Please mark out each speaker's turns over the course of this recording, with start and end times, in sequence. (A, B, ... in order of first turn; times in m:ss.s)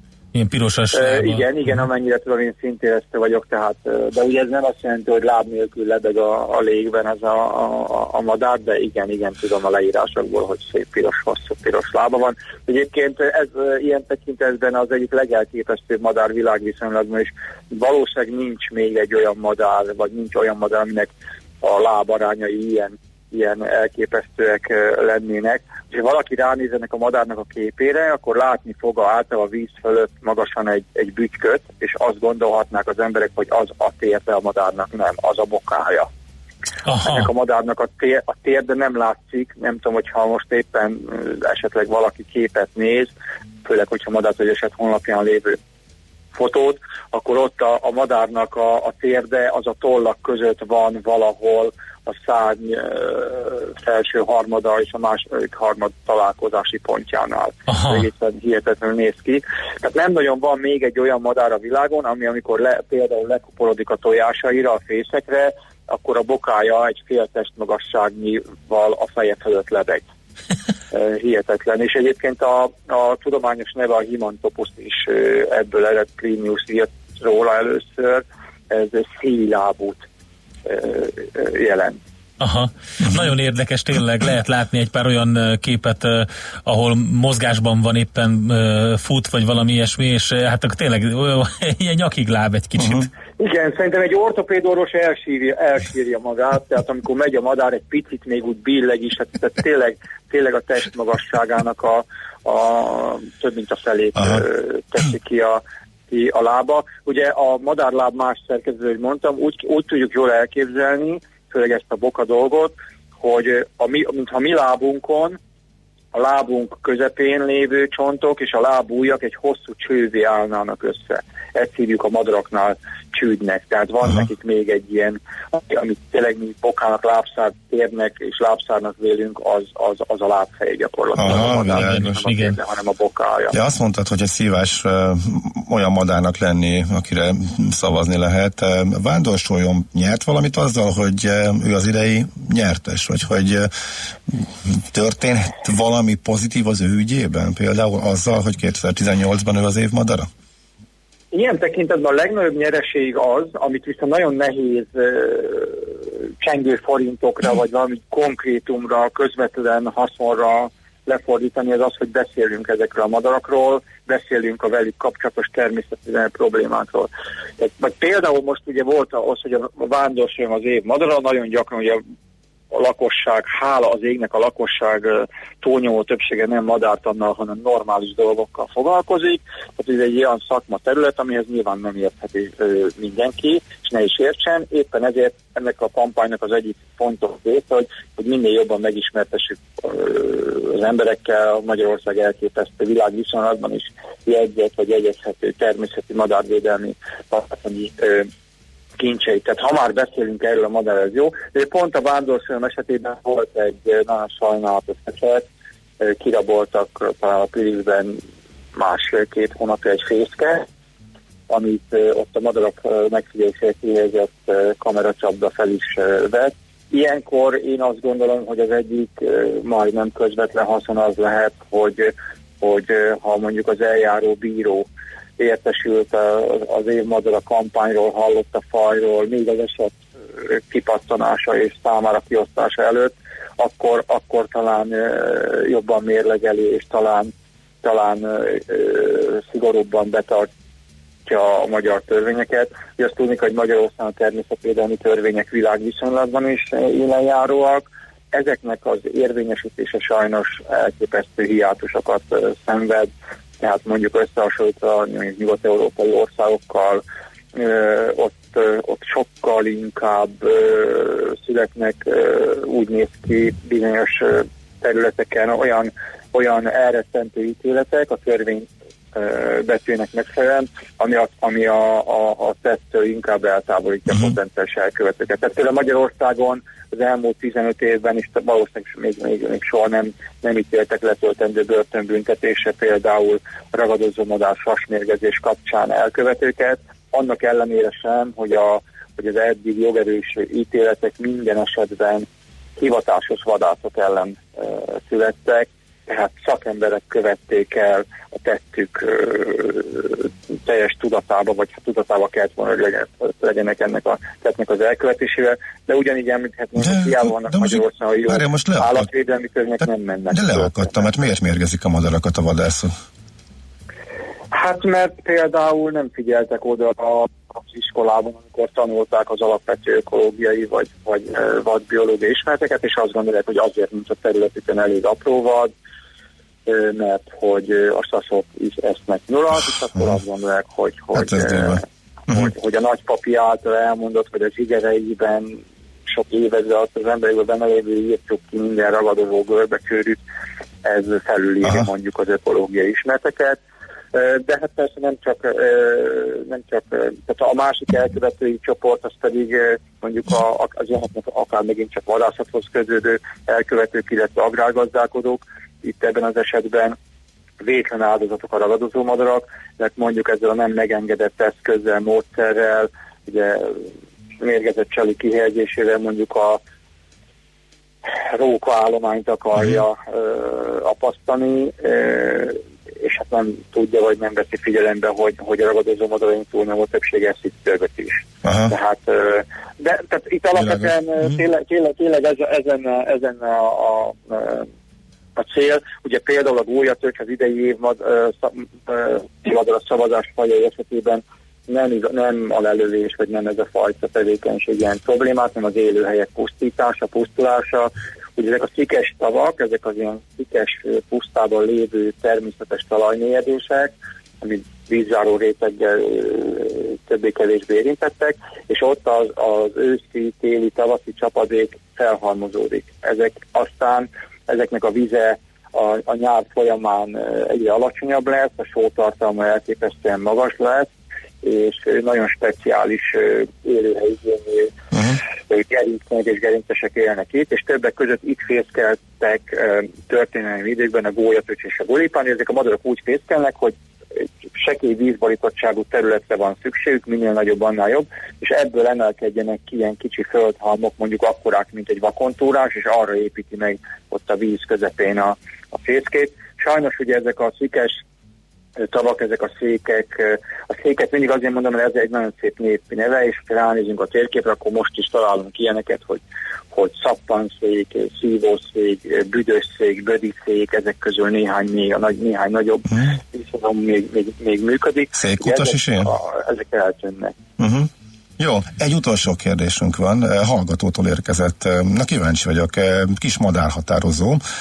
0:00.3-0:01.8 A
0:00.9-0:36.1 B
0:36.9-0:37.2 A
0:37.0-0:43.1 B
0:43.6-0:45.6 B
0:46.3-1:10.0 B
0:57.7-0:58.0 A
1:10.9-1:20.0 B
1:20.6-1:22.0 B
1:22.4-1:33.1 A
1:32.8-1:33.1 C
1:33.4-1:55.4 B
1:56.1-2:13.5 B
2:11.2-2:12.2 C
2:11.2-2:12.6 A
2:13.5-2:23.7 C
2:24.3-2:30.3 C
2:31.3-2:52.0 B
2:52.7-3:18.3 B
3:19.0-3:25.5 B
3:26.0-3:28.2 B
3:28.8-3:30.6 B
3:31.5-3:44.9 B
3:45.4-3:57.3 B
3:57.8-4:00.5 B
4:01.2-4:17.0 B
4:17.5-5:11.1 B
5:06.8-5:09.1 C
5:10.3-5:12.9 C
5:14.5-5:25.7 B
5:26.6-5:40.2 B
5:31.1-5:32.5 C
5:40.8-5:43.6 B
5:44.1-5:57.0 B
5:57.6-6:03.9 B
6:04.4-6:06.6 B
6:08.3-6:24.7 B
6:18.4-6:18.7 C
6:25.4-7:28.0 B
7:28.8-7:47.3 B
7:45.1-7:46.1 C
7:47.6-7:54.4 C